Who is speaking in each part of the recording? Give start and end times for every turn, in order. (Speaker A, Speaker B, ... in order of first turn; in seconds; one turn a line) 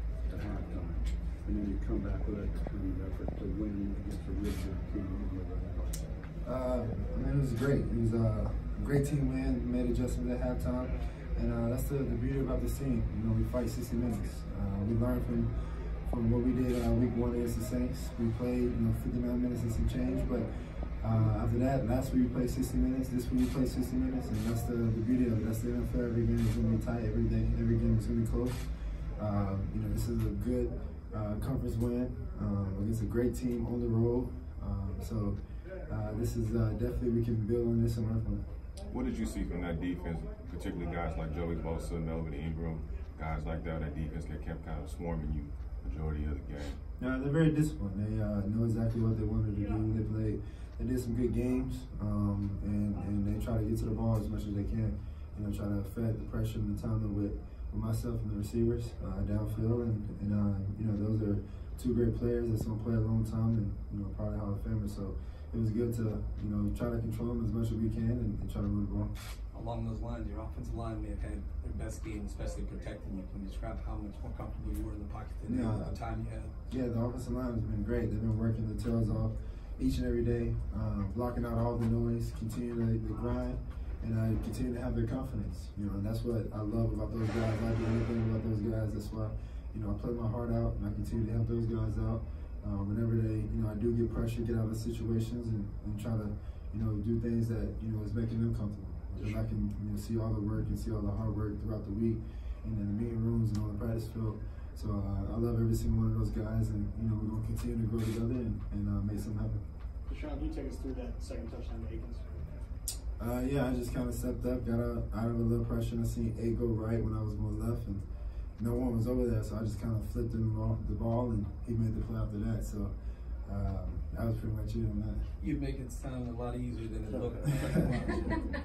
Speaker A: 0.3-5.0
Speaker B: 0.3-0.7
Speaker B: 1.6-2.4
Speaker B: 2.9-5.9
Speaker C: 6.4-15.5
Speaker C: 16.1-20.5
Speaker C: 21.0-28.6
Speaker C: 29.2-38.4
Speaker D: 38.9-46.8
Speaker C: 47.0-69.1
Speaker A: 69.5-76.5
Speaker C: 75.5-76.0
Speaker C: 76.7-109.6
Speaker E: 110.1-112.2
Speaker C: 113.2-118.0
Speaker C: 118.6-122.9
Speaker C: 123.5-125.3
Speaker A: 125.4-128.5